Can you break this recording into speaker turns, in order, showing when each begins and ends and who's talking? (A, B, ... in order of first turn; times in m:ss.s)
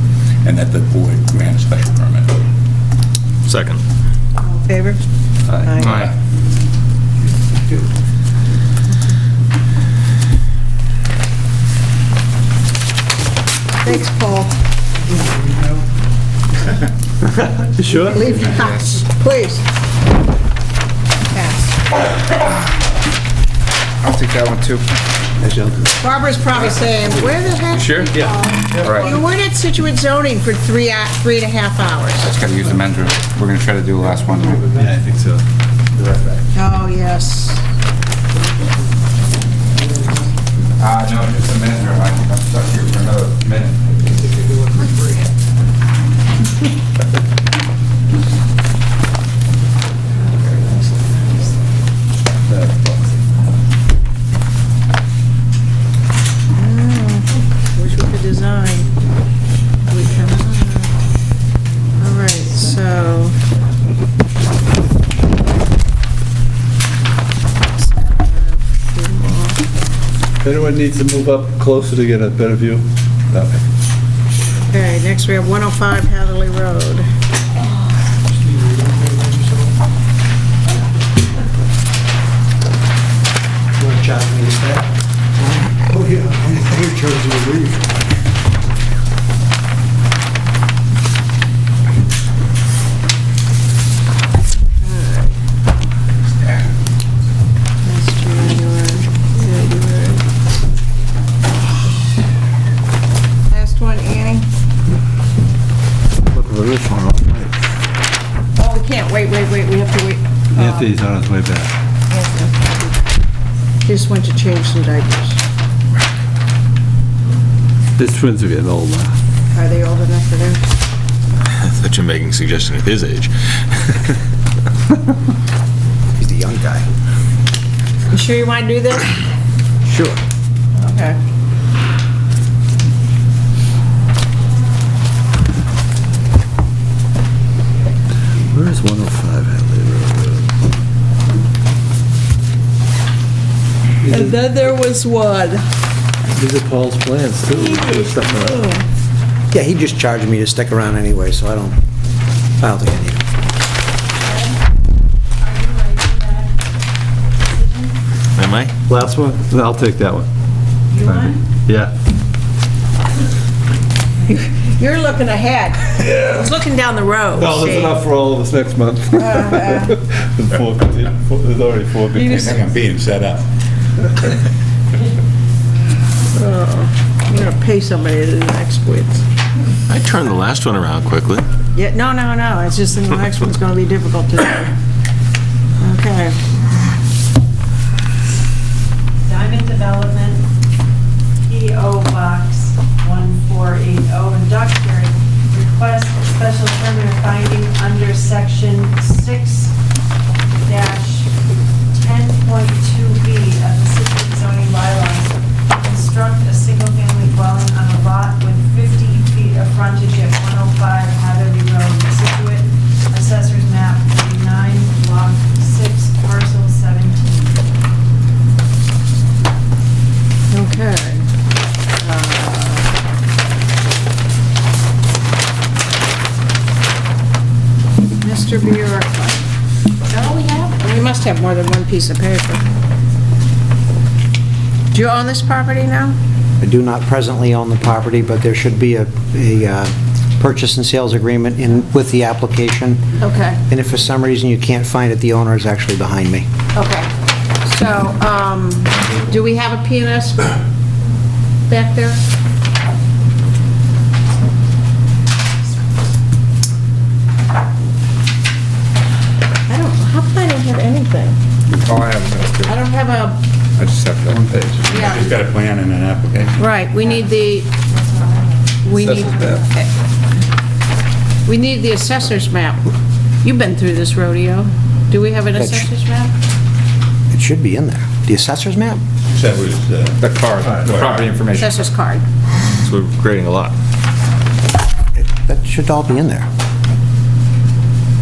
0:00.4-0:02.3 A
0:03.5-0:03.8 B
0:04.6-0:05.0 C
0:05.6-0:06.0 C
0:05.8-0:06.1 A
0:13.8-0:14.5 C
0:17.8-0:18.3 D
0:17.8-0:19.6 C
0:18.6-0:19.0 E
0:21.3-0:21.8 C
0:24.0-0:24.8 E
0:25.4-0:25.9 F
0:26.0-0:32.3 C
0:28.1-0:29.1 D
0:32.2-0:34.6 E
0:34.7-0:35.4 D
0:36.5-0:37.6 C
0:40.8-0:43.8 E
0:50.4-0:51.3 C
0:52.5-0:53.2 D
0:56.6-0:58.9 C
0:59.9-1:00.9 C
1:02.0-1:03.4 C
1:07.7-1:09.6 C
1:10.4-1:13.7 D
1:14.7-1:17.1 C
1:23.8-1:28.0 F
1:34.8-1:35.3 C
1:37.8-1:40.2 C
1:43.5-1:44.5 C
1:46.3-1:47.6 D
1:48.6-1:50.9 C
1:50.5-1:51.7 D
1:52.1-1:53.0 C
1:53.8-1:55.4 C
1:58.0-1:59.2 D
1:59.5-2:00.6 C
2:01.6-2:03.3 B
2:06.2-2:06.9 F
2:08.1-2:09.1 C
2:09.9-2:10.2 F
2:10.8-2:11.2 C
2:18.4-2:20.5 D
2:24.0-2:24.4 D
2:24.1-2:25.6 C
2:26.3-2:28.6 D
2:27.5-2:28.8 C
2:29.5-2:31.8 F
2:32.6-2:33.2 F
2:34.2-2:34.6 G
2:35.4-2:36.6 G
2:37.4-2:38.0 G
2:38.4-2:38.7 B
2:38.9-2:40.3 D
2:40.9-2:41.4 G
2:41.0-2:41.9 D
2:44.6-2:48.0 C
2:47.3-2:52.6 D
2:49.2-2:50.0 C
2:52.1-2:52.6 C
2:52.3-2:53.4 A
2:56.4-2:59.2 C
2:59.9-3:01.5 B
3:01.8-3:04.7 C
3:05.8-3:06.4 C
3:09.3-3:10.5 G
3:11.4-3:19.7 G
3:20.6-3:21.3 G
3:21.9-3:37.6 G
3:40.5-3:41.2 C
3:42.0-3:42.9 C
3:48.2-3:49.4 C
3:50.1-3:52.6 C
3:54.9-3:56.2 C
3:56.6-4:03.1 F
4:03.2-4:03.6 C
4:03.7-4:06.5 F
4:06.7-4:07.1 C
4:07.6-4:10.6 C
4:11.7-4:12.2 C
4:19.7-4:21.4 C
4:21.7-4:22.8 E
4:22.7-4:23.4 C
4:23.8-4:25.2 E
4:24.9-4:25.4 C
4:24.9-4:26.5 A
4:26.6-4:27.7 C
4:27.9-4:28.6 G
4:28.8-4:29.9 C
4:31.5-4:32.9 C
4:33.4-4:36.3 C
4:35.6-4:35.9 F
4:37.3-4:39.0 F
4:39.3-4:40.2 A
4:39.6-4:39.9 E
4:40.6-4:40.9 D
4:40.6-4:41.3 E
4:40.8-4:41.3 A
4:41.1-4:41.5 B
4:41.6-4:42.2 C
4:42.8-4:43.8 B
4:45.2-4:46.5 F